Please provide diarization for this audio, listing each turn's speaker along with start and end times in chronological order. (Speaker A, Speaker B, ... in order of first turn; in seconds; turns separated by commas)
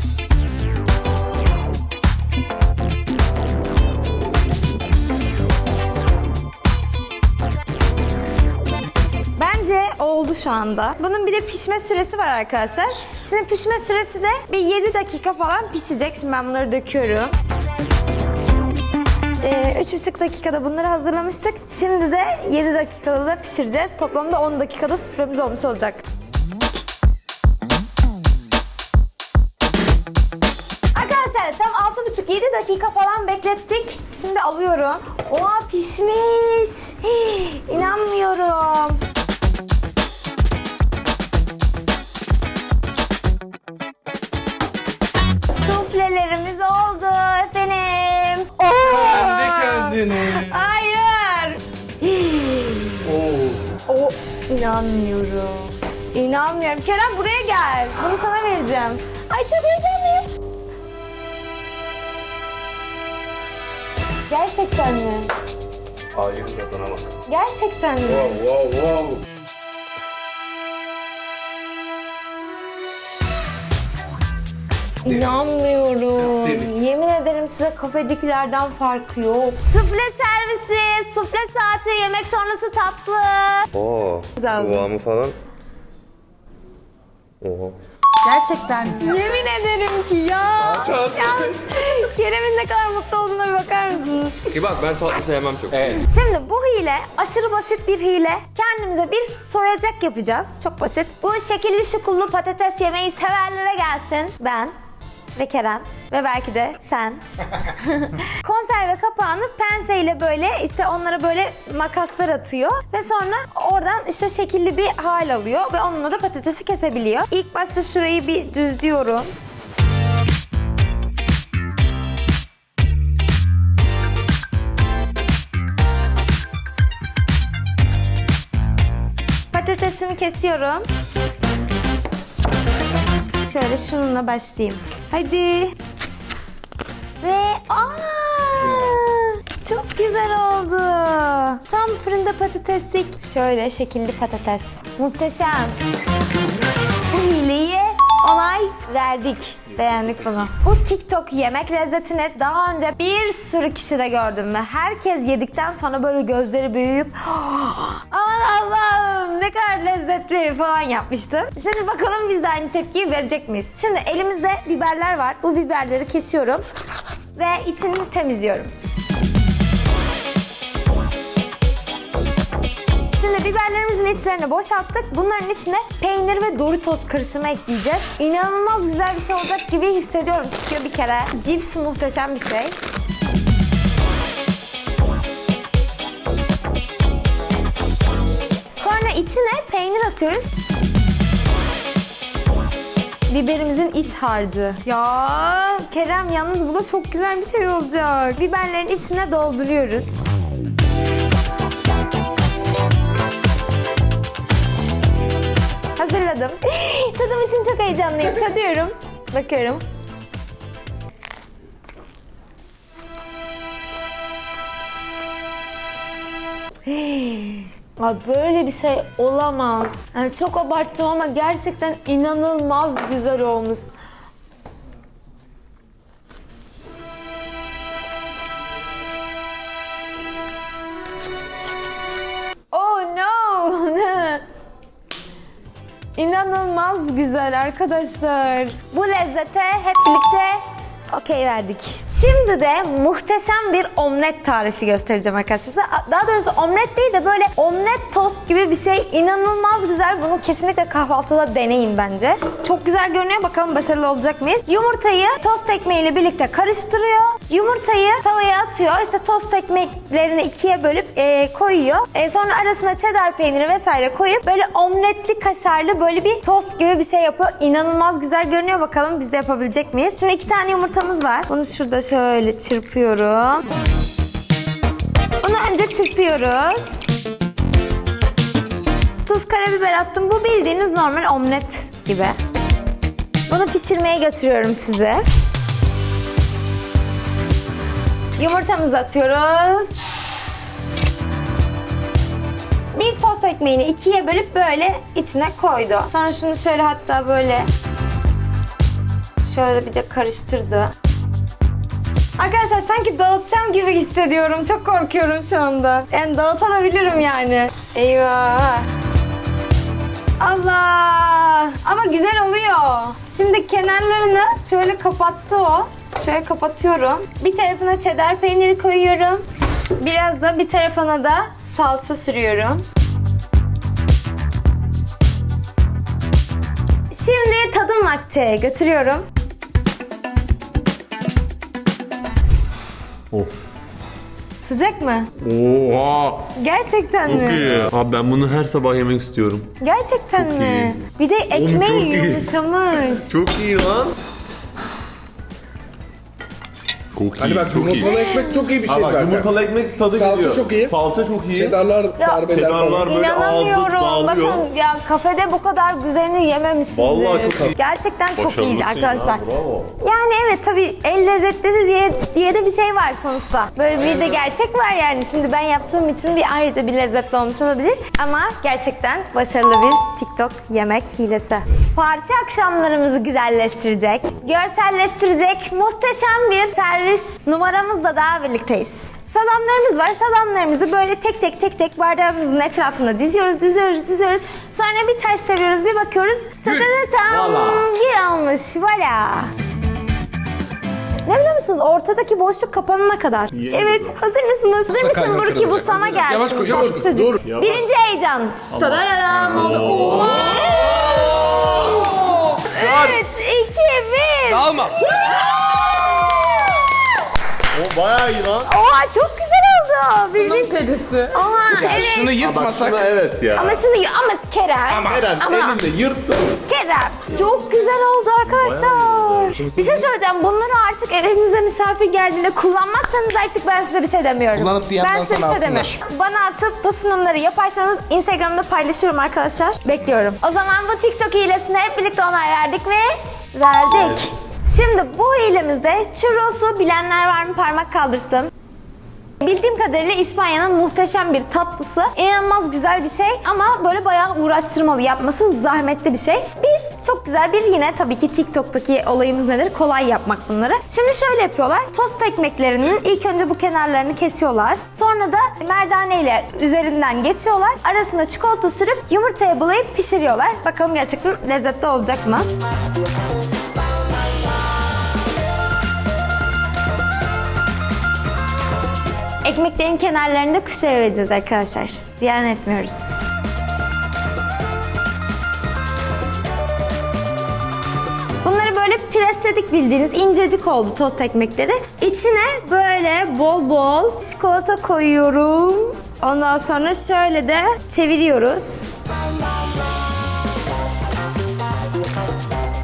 Speaker A: 9.4-17.3, Speaker A: 19.4-26.0, Speaker A: 30.9-39.0, Speaker A: 45.5-53.1, Speaker B: 48.7-50.6, Speaker C: 53.1-53.6, Speaker A: 53.9-60.3, Speaker A: 64.3-65.3, Speaker B: 66.1-67.1, Speaker A: 67.3-68.4, Speaker B: 68.1-69.2, Speaker A: 75.0-83.7, Speaker B: 76.2-76.8, Speaker C: 83.7-85.4, Speaker A: 84.4-84.9, Speaker C: 87.4-87.8, Speaker A: 88.2-94.5, Speaker B: 90.6-91.8, Speaker C: 94.5-95.9, Speaker B: 95.7-96.1, Speaker A: 96.1-104.7, Speaker A: 105.3-119.3, Speaker A: 129.5-130.9, Speaker A: 133.4-135.8, Speaker A: 137.2-145.8, Speaker B: 138.6-139.0, Speaker A: 147.1-166.6, Speaker C: 149.8-150.5, Speaker A: 167.3-168.7, Speaker A: 173.2-182.8, Speaker A: 188.8-190.6, Speaker A: 193.3-200.2, Speaker A: 206.0-209.8, Speaker A: 216.9-223.9, Speaker A: 232.7-234.4, Speaker A: 236.2-240.6, Speaker A: 241.1-273.7, Speaker A: 275.4-277.1, Speaker A: 279.2-282.4, Speaker A: 283.5-285.2, Speaker A: 288.4-290.1, Speaker A: 292.9-297.7, Speaker A: 299.4-300.9, Speaker A: 302.4-308.9, Speaker A: 310.4-319.4, Speaker A: 320.0-322.9, Speaker A: 327.1-329.2, Speaker A: 334.6-335.3, Speaker C: 335.4-336.5, Speaker A: 336.6-337.7, Speaker C: 337.2-339.7, Speaker A: 339.8-343.3, Speaker C: 340.4-341.0, Speaker C: 341.5-342.5, Speaker C: 343.1-344.2, Speaker C: 347.1-348.1, Speaker B: 347.4-349.5, Speaker A: 348.0-348.7, Speaker C: 348.9-351.8, Speaker B: 350.1-350.9, Speaker B: 351.5-353.1, Speaker A: 352.2-352.5, Speaker C: 352.5-354.6, Speaker A: 353.0-359.4, Speaker C: 356.9-357.7, Speaker C: 358.4-359.9, Speaker A: 360.0-389.5, Speaker C: 387.3-387.9, Speaker A: 391.3-407.1, Speaker C: 393.5-394.2, Speaker B: 394.9-397.3, Speaker C: 397.0-397.9, Speaker C: 398.7-401.9, Speaker B: 399.6-400.8, Speaker B: 401.4-401.7, Speaker C: 402.7-403.2, Speaker B: 404.4-405.5, Speaker C: 407.7-408.7, Speaker A: 408.6-412.4, Speaker B: 410.3-413.1, Speaker C: 412.4-413.8, Speaker A: 413.6-415.8, Speaker B: 414.9-415.3, Speaker C: 415.0-416.6, Speaker A: 416.6-438.5, Speaker C: 418.5-420.1, Speaker B: 424.5-426.0, Speaker A: 439.4-462.5, Speaker A: 469.4-473.1, Speaker A: 478.4-488.9